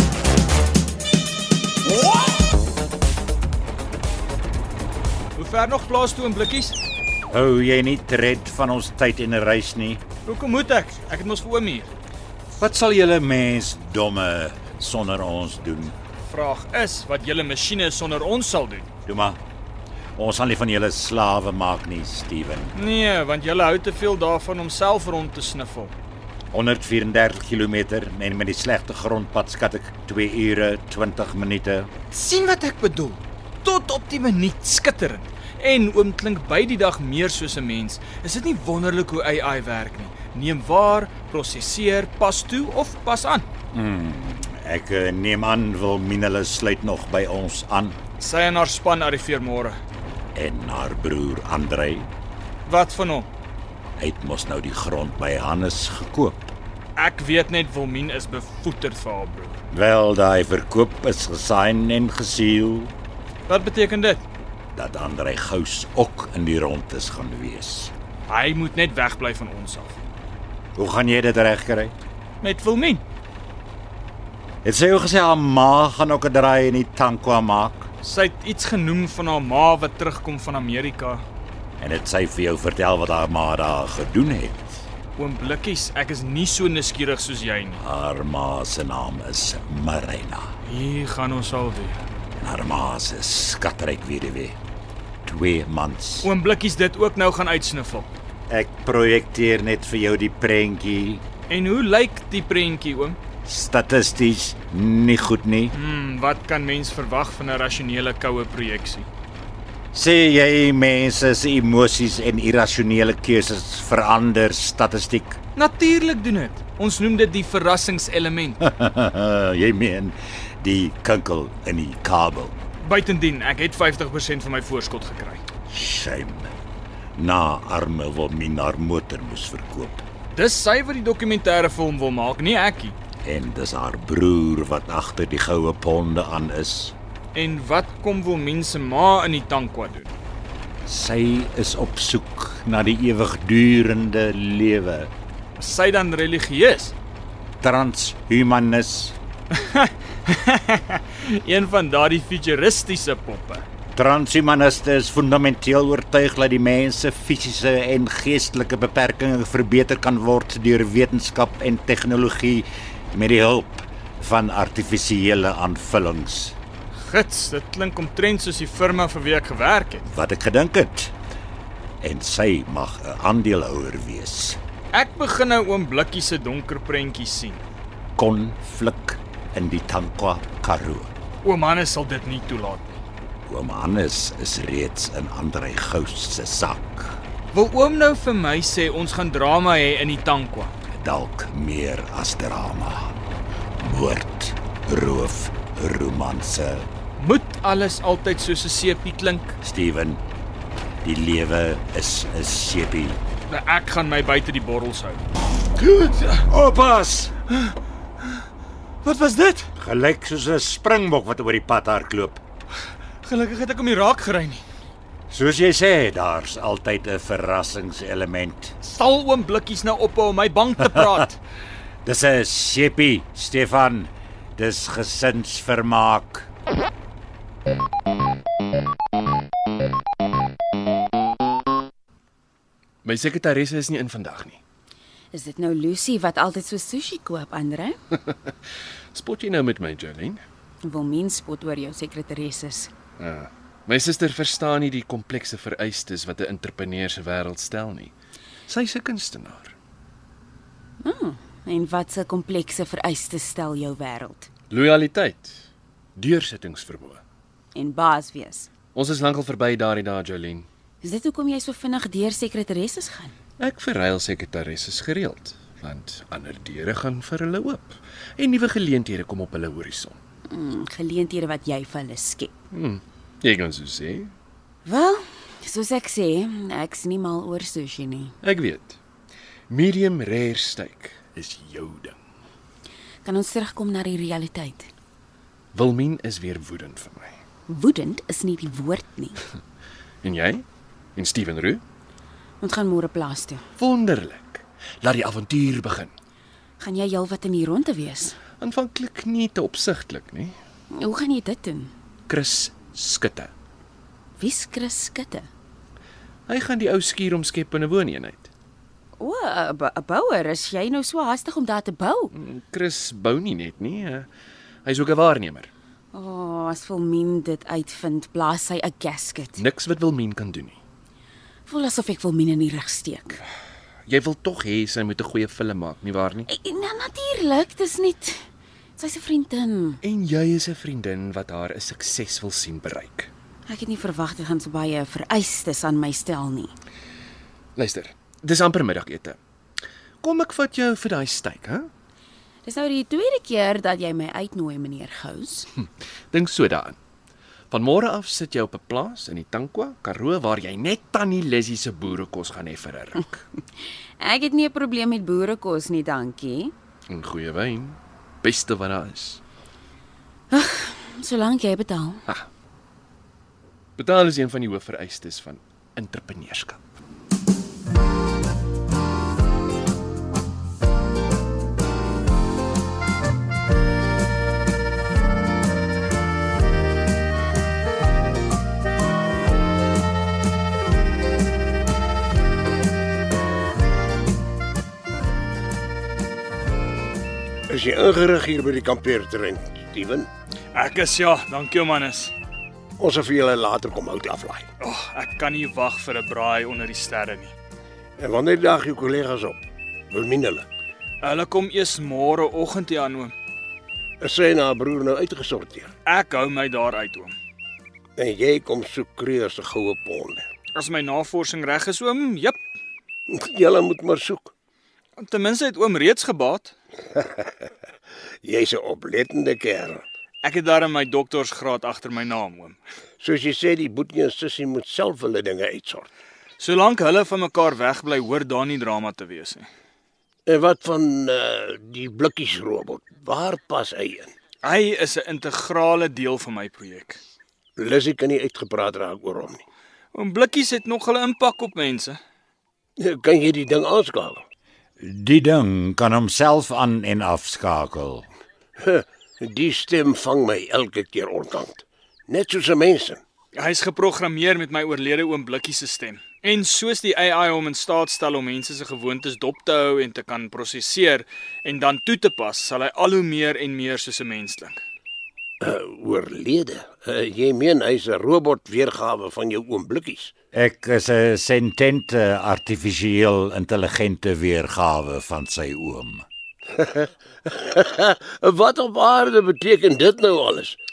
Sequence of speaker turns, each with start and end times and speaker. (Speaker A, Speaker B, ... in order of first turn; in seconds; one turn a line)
Speaker A: 5.4-6.8
Speaker B: 7.3-10.0
Speaker A: 10.3-11.9
Speaker B: 12.6-15.9
Speaker A: 16.3-18.9
Speaker B: 19.1-19.4
Speaker B: 20.2-22.7
Speaker A: 22.8-25.9
Speaker B: 26.5-31.9
Speaker A: 32.1-43.5
Speaker B: 43.7-48.0
Speaker A: 48.2-49.8
Speaker B: 50.4-52.1
Speaker A: 52.7-53.3
Speaker B: 54.0-56.5
Speaker A: 57.0-59.6
Speaker B: 59.7-62.9
Speaker A: 63.5-64.2
Speaker B: 64.8-67.9
Speaker A: 68.3-70.0
Speaker B: 70.8-72.0
Speaker A: 72.4-73.0
Speaker B: 74.6-77.9
Speaker A: 78.0-81.2
Speaker B: 81.8-84.8
Speaker A: 85.2-87.8
Speaker B: 87.8-90.5
Speaker A: 90.7-92.0
Speaker B: 92.4-94.6
Speaker B: 95.3-96.3
Speaker A: 96.2-98.1
Speaker B: 98.5-101.2
Speaker A: 101.5-103.2
Speaker B: 103.5-105.7
Speaker A: 105.7-109.1
Speaker B: 109.9-115.4
Speaker A: 115.6-118.6
Speaker B: 118.6-122.5
Speaker A: 122.8-125.4
Speaker B: 125.7-126.5
Speaker B: 127.2-130.0
Speaker A: 130.3-132.9
Speaker B: 133.2-136.9
Speaker A: 137.3-140.1
Speaker B: 140.9-145.1
Speaker A: 145.6-146.9
Speaker B: 147.6-149.2
Speaker A: 149.6-153.7
Speaker B: 153.9-166.6
Speaker A: 167.0-170.1
Speaker B: 170.1-171.1
Speaker B: 172.0-174.6
Speaker A: 174.9-177.6
Speaker B: 178.2-181.1
Speaker A: 181.4-183.0
Speaker B: 183.5-187.2
Speaker A: 187.5-190.7
Speaker B: 190.9-193.2
Speaker B: 193.8-196.9
Speaker A: 197.2-199.6
Speaker B: 199.6-200.2
Speaker B: 201.0-203.2
Speaker A: 203.5-205.2
Speaker A: 205.8-206.4
Speaker B: 206.4-207.3
Speaker A: 209.0-209.7
Speaker B: 209.8-212.4
Speaker A: 213.2-214.6
Speaker B: 215.3-218.8
Speaker A: 218.8-221.4
Speaker B: 222.1-226.5
Speaker C: 233.1-234.6
Speaker D: 235.3-238.0
Speaker C: 239.1-240.4
Speaker D: 240.8-242.9
Speaker C: 243.2-248.1
Speaker C: 248.7-249.7
Speaker D: 251.0-254.5
Speaker C: 254.7-255.6
Speaker C: 256.2-257.2
Speaker D: 257.7-258.7
Speaker C: 258.9-260.7
Speaker D: 261.0-263.3
Speaker C: 263.6-270.2
Speaker D: 270.5-272.5
Speaker C: 272.7-274.3
Speaker D: 274.9-278.4
Speaker C: 278.4-279.0
Speaker C: 279.7-282.2
Speaker D: 283.2-284.9
Speaker C: 285.7-287.4
Speaker D: 287.7-289.4
Speaker C: 290.2-290.6
Speaker C: 291.2-291.8
Speaker D: 292.6-293.6
Speaker C: 293.8-296.1
Speaker D: 296.8-298.4
Speaker C: 298.6-300.6
Speaker D: 300.9-301.9
Speaker C: 302.3-303.5
Speaker D: 304.4-305.5
Speaker C: 306.5-308.5
Speaker D: 309.2-312.3
Speaker C: 312.3-314.3
Speaker C: 314.9-315.7
Speaker D: 316.1-319.6
Speaker C: 319.6-320.8
Speaker D: 321.7-323.4
Speaker C: 324.1-326.5
Speaker D: 326.5-328.4
Speaker D: 329.0-330.0
Speaker C: 330.0-333.3
Speaker D: 333.7-336.7
Speaker C: 337.8-339.4
Speaker C: 340.2-341.9
Speaker D: 342.6-345.7
Speaker C: 346.3-347.0
Speaker C: 347.7-353.4
Speaker D: 354.2-356.7
Speaker C: 357.1-359.4
Speaker D: 360.5-362.2
Speaker C: 364.0-366.8
Speaker E: 387.7-390.3
Speaker A: 390.7-392.3
Speaker E: 393.0-394.7
Speaker A: 394.8-397.5
Speaker E: 398.2-400.7
Speaker A: 401.2-403.3
Speaker E: 404.2-405.9
Speaker A: 406.1-407.4
Speaker E: 408.2-410.5
Speaker A: 410.8-412.6
Speaker E: 413.3-414.5
Speaker A: 415.2-416.7
Speaker E: 417.1-417.7
Speaker E: 418.4-420.0
Speaker A: 420.4-422.8
Speaker E: 423.2-426.1
Speaker A: 426.6-429.7
Speaker E: 430.5-434.3
Speaker A: 434.6-437.2
Speaker E: 437.8-439.6
Speaker A: 440.1-442.2
Speaker E: 443.0-444.4
Speaker B: 445.0-448.3
Speaker E: 448.8-453.2
Speaker A: 453.6-464.8
Speaker E: 465.6-470.3
Speaker B: 470.5-476.2
Speaker E: 476.8-480.8